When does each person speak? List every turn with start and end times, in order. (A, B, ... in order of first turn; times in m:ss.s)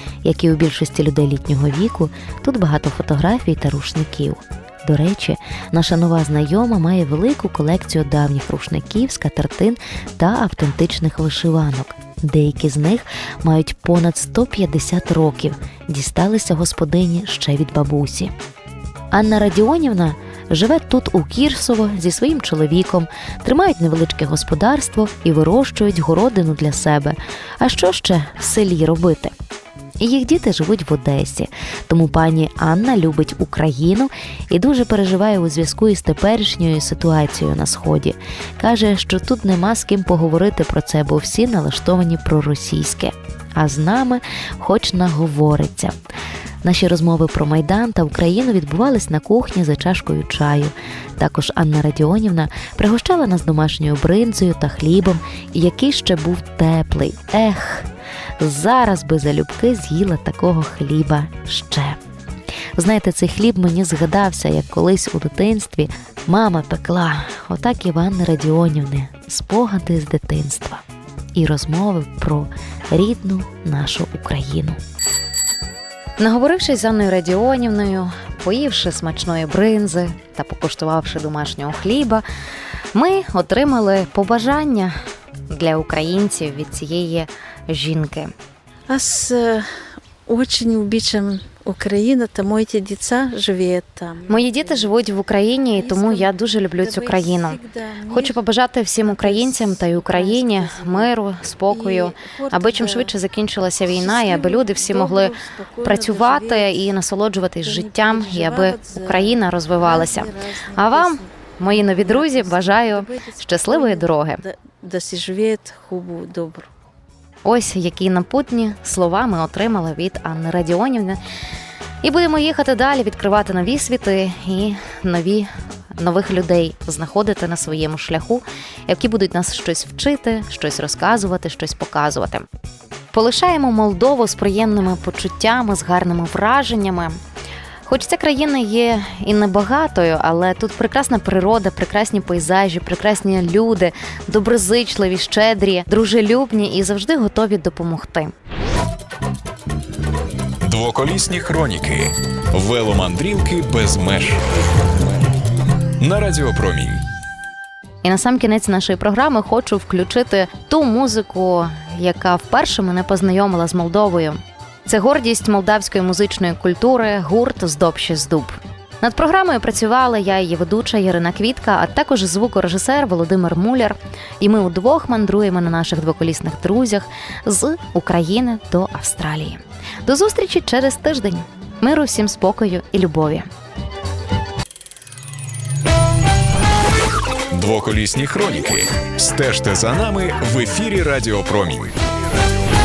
0:00.2-0:18.3 A
0:19.1-0:29.3 A
0:30.0-0:45.9 A
0:46.6-0:57.9 A
0:58.4-1:02.0 A
1:02.8-1:10.8 A
1:11.3-1:14.8 A
1:16.2-1:22.2 A
1:22.9-1:24.9 A
1:25.5-1:28.3 A
1:28.9-1:29.7 B
1:30.3-1:34.9 B
1:34.3-1:37.6 A
1:35.7-1:38.4 B
1:38.1-1:54.4 A
1:39.0-1:41.1 B
1:41.7-1:43.1 B
1:43.9-1:46.9 B
1:47.6-1:56.7 B
1:57.4-2:01.2 A
2:02.0-2:12.4 A
2:13.1-2:17.2 A
2:17.8-2:28.3 A
2:30.6-2:34.4 C
2:36.0-2:37.0 C
2:38.0-3:03.5 A
3:07.5-3:12.0 C